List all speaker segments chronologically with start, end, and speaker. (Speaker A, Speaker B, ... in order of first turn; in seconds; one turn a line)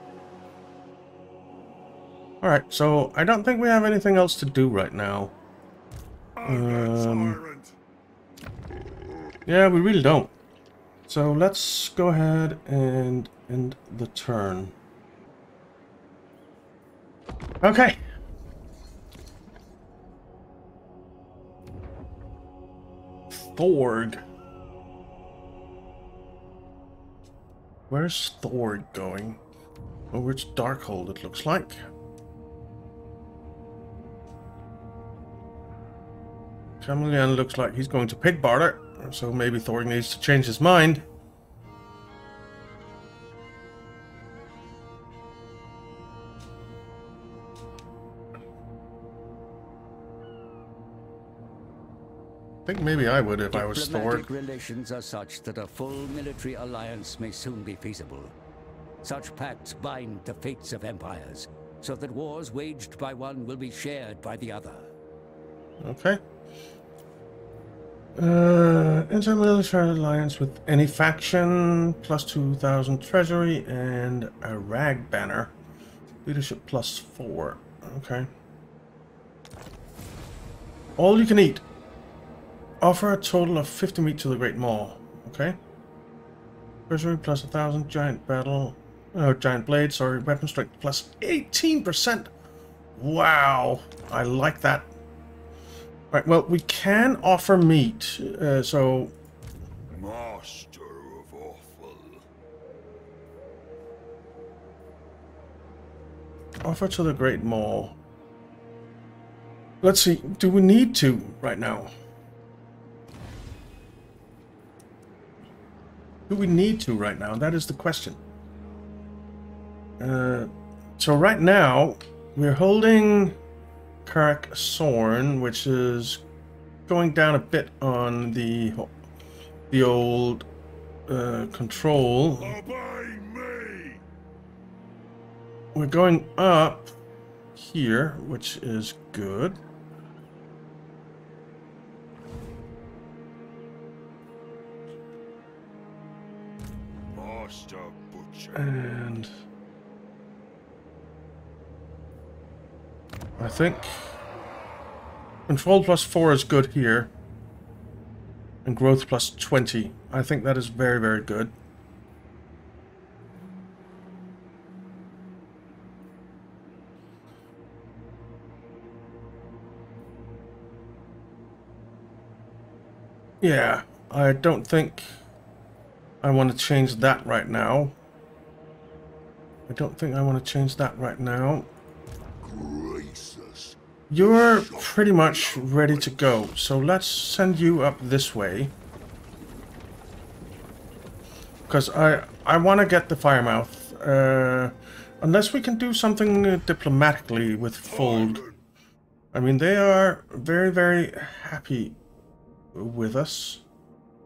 Speaker A: 2.4-5.3
Speaker B: 6.3-7.7
Speaker A: 6.4-7.4
Speaker A: 9.4-10.3
Speaker A: 11.1-14.7
Speaker A: 17.6-18.0
Speaker A: 23.3-24.2
Speaker A: 27.9-29.4
Speaker A: 30.1-31.8
Speaker A: 36.8-41.0
Speaker A: 52.6-54.3
Speaker C: 53.5-58.3
Speaker C: 59.0-64.9
Speaker A: 65.8-66.2
Speaker A: 68.1-75.5
Speaker A: 76.2-78.3
Speaker A: 81.0-81.6
Speaker A: 82.8-85.6
Speaker A: 86.9-92.3
Speaker A: 92.9-94.9
Speaker A: 96.1-99.1
Speaker B: 99.9-102.2
Speaker A: 106.6-108.0
Speaker A: 109.8-111.9
Speaker A: 116.3-118.2
Speaker A: 120.0-123.4
Speaker A: 124.0-126.2
Speaker A: 126.9-128.9
Speaker A: 129.7-130.4
Speaker A: 131.1-132.6
Speaker B: 132.4-134.0
Speaker A: 135.7-136.9
Speaker A: 137.6-139.6
Speaker B: 147.1-148.8
Speaker A: 148.5-149.3
Speaker A: 153.4-154.1
Speaker A: 155.5-157.1
Speaker A: 158.6-161.5
Speaker A: 173.4-175.1
Speaker A: 176.2-177.9
Speaker A: 179.7-181.7
Speaker B: 182.4-186.5
Speaker A: 184.1-188.7
Speaker A: 191.7-198.4
Speaker B: 197.8-198.6
Speaker A: 199.3-202.0
Speaker A: 202.7-203.6